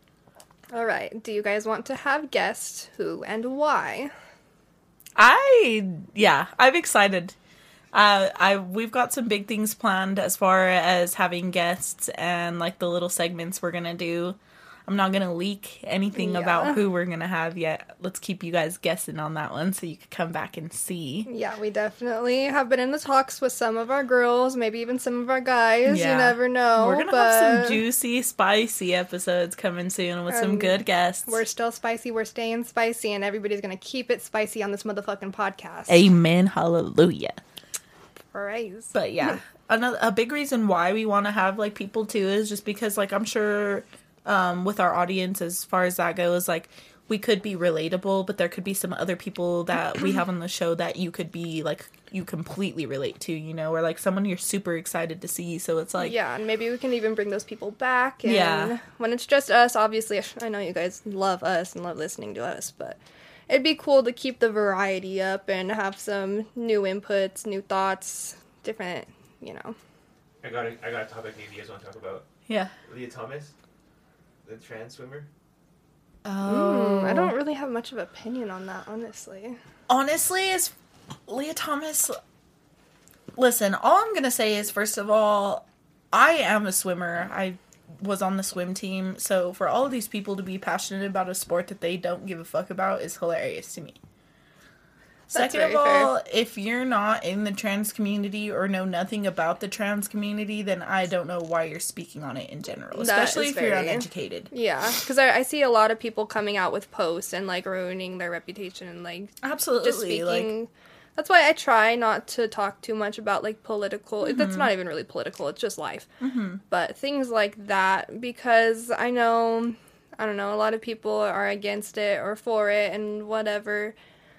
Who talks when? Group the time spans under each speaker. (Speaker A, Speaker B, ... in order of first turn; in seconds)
Speaker A: 0.7-4.1, 16.1-16.8, 21.3-27.8, 30.3-30.8, 31.3-36.0, 38.3-38.9, 56.0-69.8, 76.4-79.6, 95.3-96.1, 102.9-116.1, 116.7-123.9
Speaker B: 5.2-7.3, 7.9-21.3, 25.9-31.4, 35.9-37.4, 38.9-56.1, 58.2-58.7, 72.5-72.7, 76.2-77.3, 79.9-80.7, 81.3-82.2, 83.3-94.0, 95.3-104.5, 109.4-110.5, 114.2-114.7, 116.2-116.6
Speaker C: 70.4-72.3, 72.8-73.5, 74.4-75.3